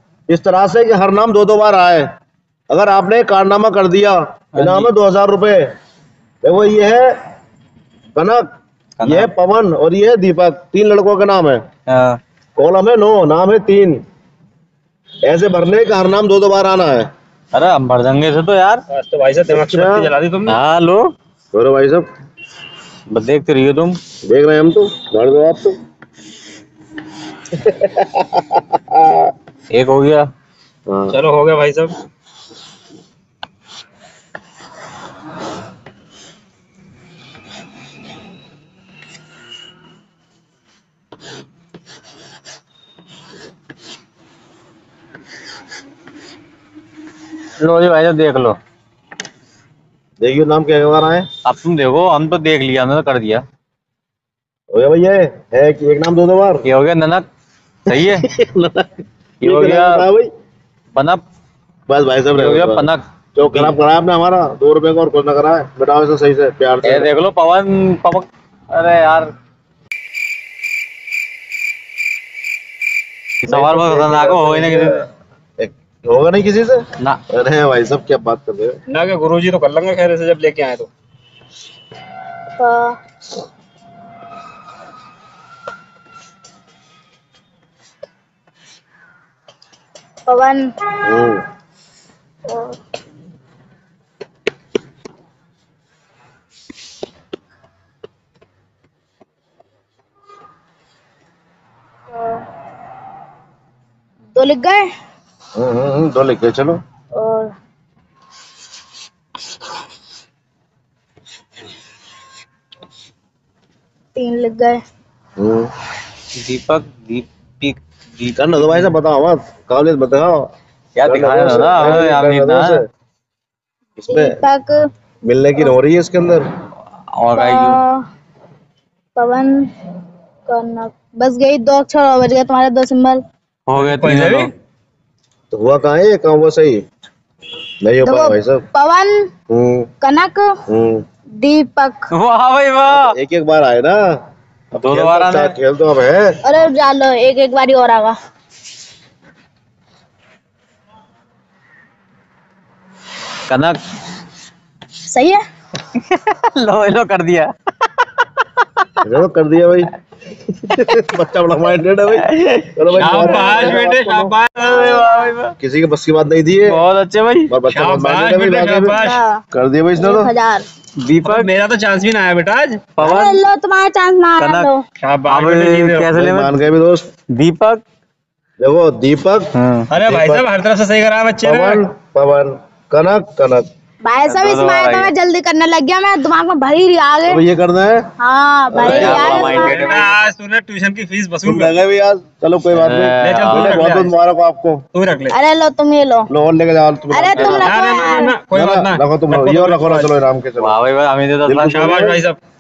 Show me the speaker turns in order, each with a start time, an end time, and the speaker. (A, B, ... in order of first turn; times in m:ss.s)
0:00.3-0:02.1 A
0:02.7-0:05.6 A
0:04.6-0:04.9 B
0:06.4-0:07.1 A
0:08.2-0:08.4 A
0:09.0-0:09.3 B
0:09.0-0:11.6 A
0:11.9-0:12.2 B
0:12.6-0:14.0 A
0:15.3-0:17.0 A
0:17.5-0:18.8 B
0:18.9-0:20.6 C
0:19.5-0:20.1 A
0:20.5-0:21.1 B
0:21.5-0:22.1 A
0:23.1-0:24.0 B
0:24.3-0:25.8 A
0:27.5-0:29.3 A
0:29.7-0:30.3 B
0:30.9-0:31.2 A
0:31.1-0:31.9 C
0:47.6-0:48.6 B
0:50.2-0:51.3 A
0:51.4-0:53.4 B
0:54.7-0:56.7 A
0:56.7-0:57.2 B
0:57.9-0:58.2 B
0:58.0-0:58.9 A
0:59.4-1:00.0 B
0:59.4-1:00.3 A
1:00.9-1:01.2 B
1:01.9-1:07.1 A
1:02.3-1:03.8 B
1:06.8-1:09.3 B
1:13.4-1:15.1 B
1:13.5-1:15.0 A
1:15.6-1:18.8 A
1:18.9-1:20.9 C
1:22.6-1:23.0 D
1:30.3-1:30.7 D
1:31.0-1:31.4 A
1:32.5-1:32.8 D
1:42.2-1:42.4 D
1:44.3-1:44.8 D
1:45.6-1:46.8 A
1:47.2-1:47.5 D
1:54.2-1:54.8 D
1:55.4-1:55.7 A
1:56.4-1:59.0 B
1:58.4-2:00.5 A
2:01.0-2:02.8 B
2:01.1-2:02.8 A
2:04.0-2:04.4 A
2:04.1-2:04.8 D
2:05.2-2:06.5 A
2:07.1-2:07.8 B
2:07.4-2:08.0 D
2:09.2-2:09.7 D
2:10.5-2:13.2 D
2:13.7-2:14.5 B
2:13.8-2:14.5 C
2:15.5-2:16.8 A
2:17.8-2:18.6 A
2:18.0-2:19.1 D
2:19.5-2:19.9 A
2:20.0-2:20.5 D
2:20.7-2:21.0 A
2:21.4-2:22.1 D
2:22.1-2:23.2 B
2:22.9-2:24.0 A
2:24.7-2:26.4 A
2:24.8-2:25.6 B
2:26.4-2:28.2 D
2:33.5-2:33.8 B
2:35.1-2:35.4 D
2:35.9-2:37.5 B
2:38.2-2:39.0 B
2:39.0-2:39.9 A
2:40.6-2:44.4 A
2:42.2-2:43.1 B
2:42.9-2:44.8 C
2:43.2-2:43.8 D
2:44.6-2:45.6 B
2:44.9-2:45.3 D
2:45.6-2:46.8 A
2:46.6-2:47.5 B
2:47.5-2:50.3 A
2:47.7-2:49.2 C
2:48.9-2:49.3 D
2:50.0-2:50.7 D
2:51.0-2:51.5 B
2:51.2-2:53.0 C
2:53.0-2:53.4 B
2:53.0-2:54.8 D
2:54.4-2:54.7 B
2:55.0-2:56.1 C
2:55.3-2:56.7 B
2:56.2-2:57.1 A
2:57.3-2:57.8 B
2:58.6-2:59.5 A
2:59.6-2:59.9 B
2:59.9-3:01.8 C
3:00.0-3:00.4 A
3:01.4-3:03.7 A
3:04.0-3:07.4 D
3:04.3-3:05.1 B
3:07.3-3:08.0 A
3:08.2-3:09.9 D
3:08.7-3:09.6 A
3:08.9-3:10.2 B
3:09.5-3:11.7 C
3:11.4-3:14.8 A
3:12.7-3:13.9 B
3:13.2-3:14.1 C
3:14.9-3:15.4 C
3:15.3-3:16.3 D
3:16.3-3:17.8 A
3:17.1-3:18.3 D
3:17.4-3:20.2 C
3:18.5-3:20.8 A
3:20.6-3:21.9 B
3:21.5-3:22.2 A
3:21.7-3:22.4 C